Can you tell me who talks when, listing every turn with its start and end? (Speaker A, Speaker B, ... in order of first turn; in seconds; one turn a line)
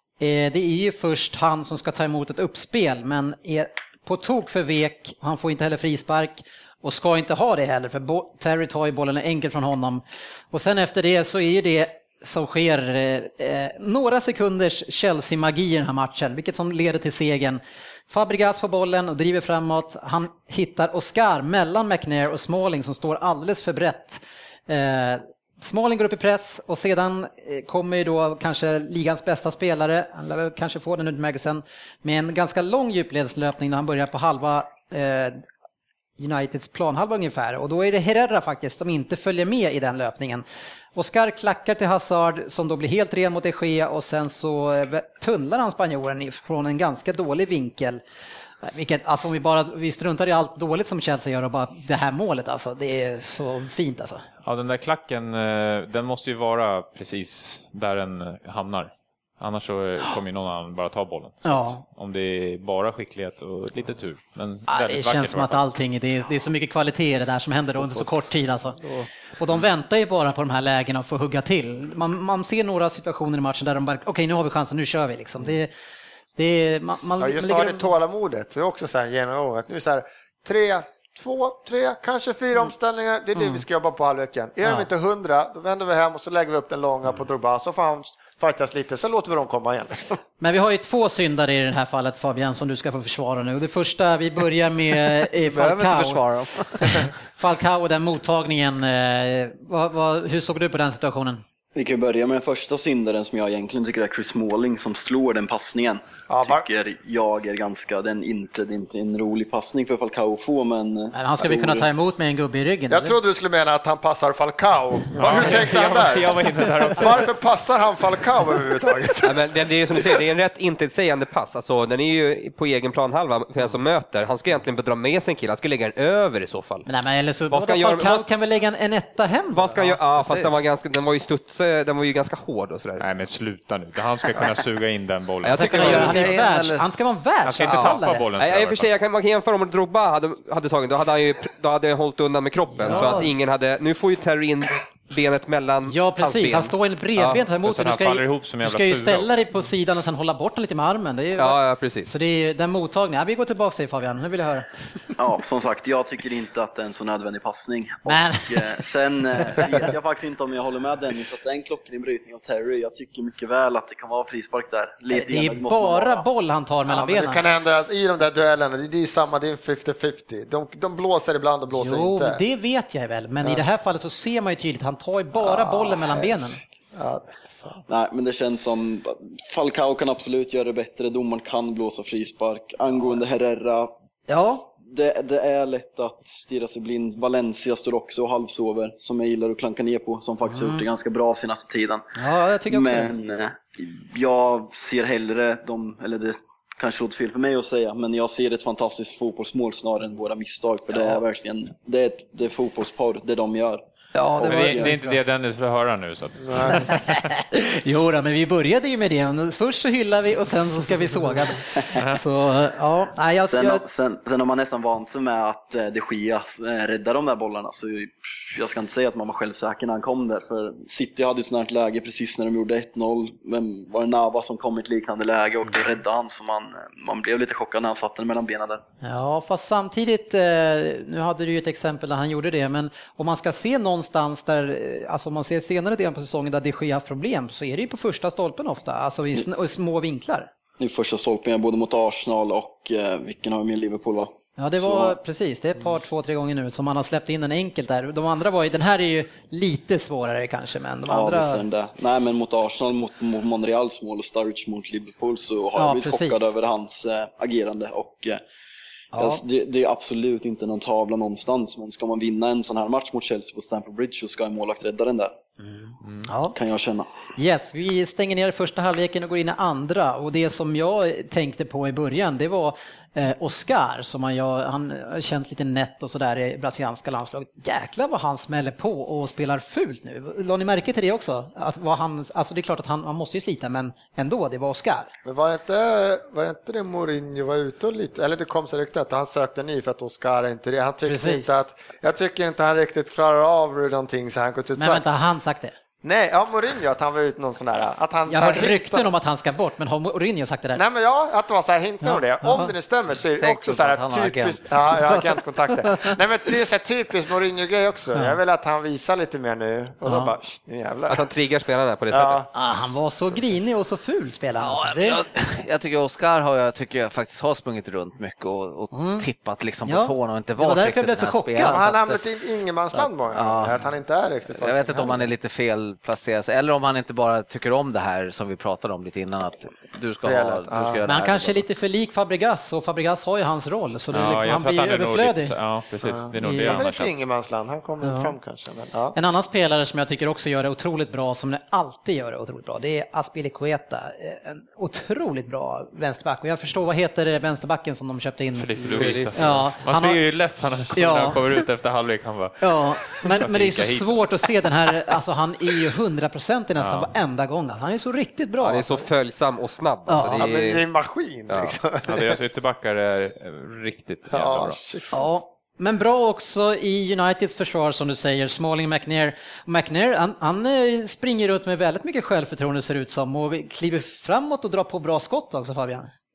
Speaker A: 0.2-35.4
Speaker A: 36.2-48.0
Speaker A: 48.6-54.2
Speaker B: 54.4-65.6
Speaker A: 61.4-61.8
Speaker A: 64.7-68.8
Speaker A: 69.4-75.7
Speaker A: 76.4-77.9
Speaker C: 77.2-90.2
Speaker A: 83.3-83.6
Speaker A: 90.4-96.2
Speaker D: 95.4-97.1
Speaker A: 96.8-101.4
Speaker E: 101.7-111.9
Speaker C: 106.3-106.7
Speaker A: 111.1-113.1
Speaker C: 112.9-120.2
Speaker B: 115.1-117.3
Speaker F: 119.2-126.8
Speaker A: 126.8-130.0
Speaker F: 127.5-128.3
Speaker F: 129.5-133.0
Speaker D: 130.2-130.5
Speaker B: 133.0-136.2
Speaker F: 135.4-136.3
Speaker A: 135.5-138.3
Speaker D: 135.6-136.8
Speaker B: 137.4-138.9
Speaker F: 137.7-147.4
Speaker A: 142.8-143.3
Speaker A: 145.9-154.7
Speaker B: 147.6-149.3
Speaker F: 151.3-152.2
Speaker E: 155.2-166.2
Speaker A: 158.1-158.6
Speaker A: 165.1-167.4
Speaker C: 166.9-172.4
Speaker A: 171.7-176.6
Speaker C: 175.3-177.8
Speaker E: 177.9-183.9
Speaker A: 184.3-184.7
Speaker E: 184.8-192.0
Speaker A: 190.5-190.8
Speaker A: 192.2-193.1
Speaker E: 192.7-203.8
Speaker A: 204.1-205.2
Speaker E: 204.3-204.9
Speaker B: 204.4-207.2
Speaker C: 206.4-206.7
Speaker A: 206.6-213.8
Speaker E: 213.5-228.8
Speaker A: 229.0-240.5
Speaker E: 240.8-245.2
Speaker A: 244.6-251.6
Speaker E: 251.1-258.4
Speaker A: 255.8-256.5
Speaker A: 259.1-259.4
Speaker E: 259.1-265.3
Speaker A: 265.6-266.5
Speaker B: 266.0-266.3
Speaker E: 266.5-267.1
Speaker A: 267.4-285.1
Speaker C: 285.2-295.0
Speaker A: 291.0-291.6
Speaker A: 294.8-295.7
Speaker C: 296.0-299.1
Speaker A: 298.3-300.8
Speaker C: 300.7-311.2
Speaker A: 302.0-302.7
Speaker D: 303.4-305.0
Speaker A: 305.9-306.1
Speaker A: 310.1-310.3
Speaker F: 311.1-312.4
Speaker C: 312.1-312.5
Speaker A: 312.5-315.2
Speaker D: 314.6-322.2
Speaker A: 318.9-319.3
Speaker A: 319.8-321.9
Speaker C: 321.6-325.3
Speaker D: 322.9-323.8
Speaker D: 324.5-331.6
Speaker C: 330.2-331.0
Speaker A: 331.1-335.5
Speaker B: 334.1-337.1
Speaker C: 336.1-339.1
Speaker A: 336.4-336.8
Speaker A: 338.0-338.3
Speaker A: 339.1-350.2
Speaker B: 348.5-354.5
Speaker F: 348.9-349.5
Speaker A: 350.9-351.4
Speaker A: 352.6-359.1
Speaker B: 356.8-357.1
Speaker F: 358.6-360.8
Speaker A: 360.1-360.4
Speaker C: 360.3-362.4
Speaker B: 362.0-364.8
Speaker C: 364.3-365.3
Speaker A: 365.1-376.1